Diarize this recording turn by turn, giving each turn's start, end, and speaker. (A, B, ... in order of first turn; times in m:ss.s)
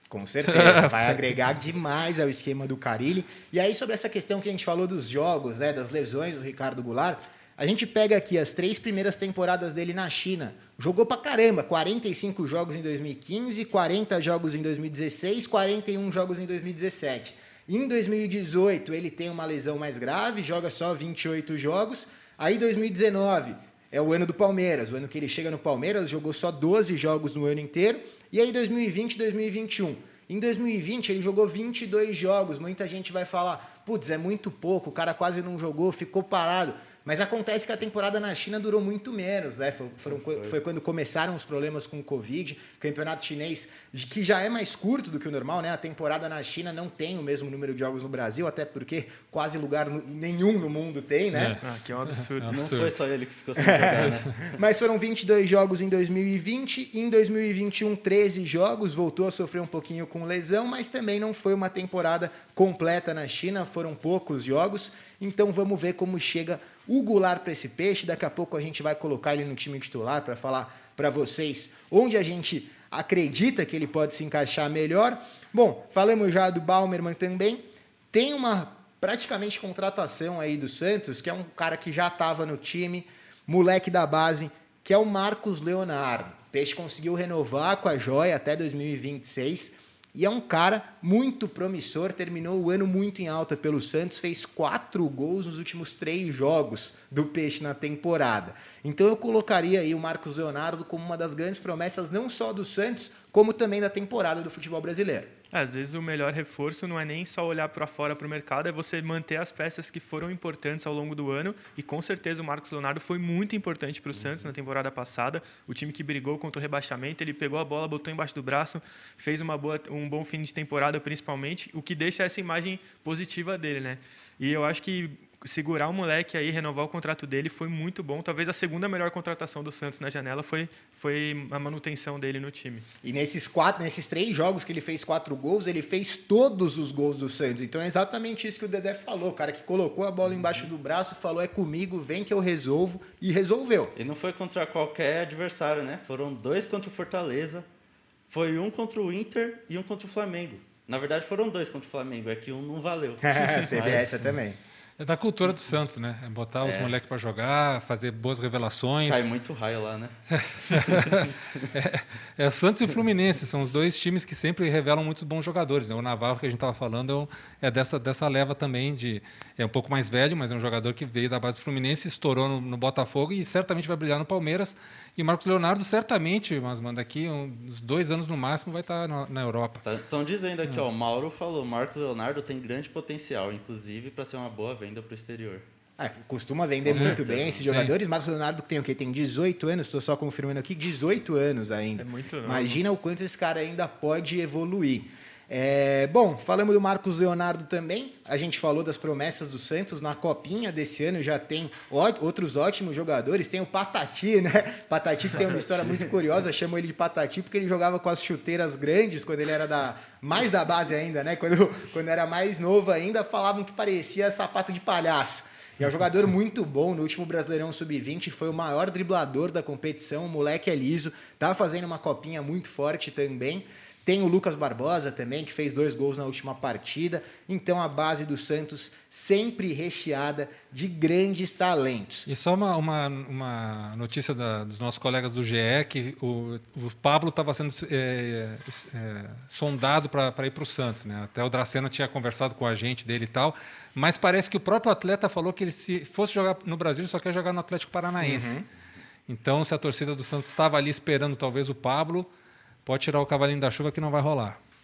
0:00.1-0:51.6 A
0:00.4-0:01.2 B
0:51.3-0:51.6 B
0:51.6-0:52.7 C
0:52.1-0:53.0 B
0:52.5-0:54.6 D
0:53.6-1:45.3 A
1:45.5-2:12.8 C
2:13.0-2:23.9 A
2:24.0-2:27.7 D
2:28.3-2:34.2 D
2:33.2-2:34.6 A
2:35.0-2:39.3 B
2:36.6-2:36.9 D
2:39.0-2:41.7 D
2:40.4-2:59.8 B
2:59.8-3:05.6 D
3:06.0-3:52.3 A
3:06.8-3:07.7 D
3:07.0-3:07.9 B
3:12.0-3:12.8 C
3:52.3-4:08.6 B
4:08.2-4:08.6 A
4:09.3-4:12.3 B
4:12.8-4:14.6 B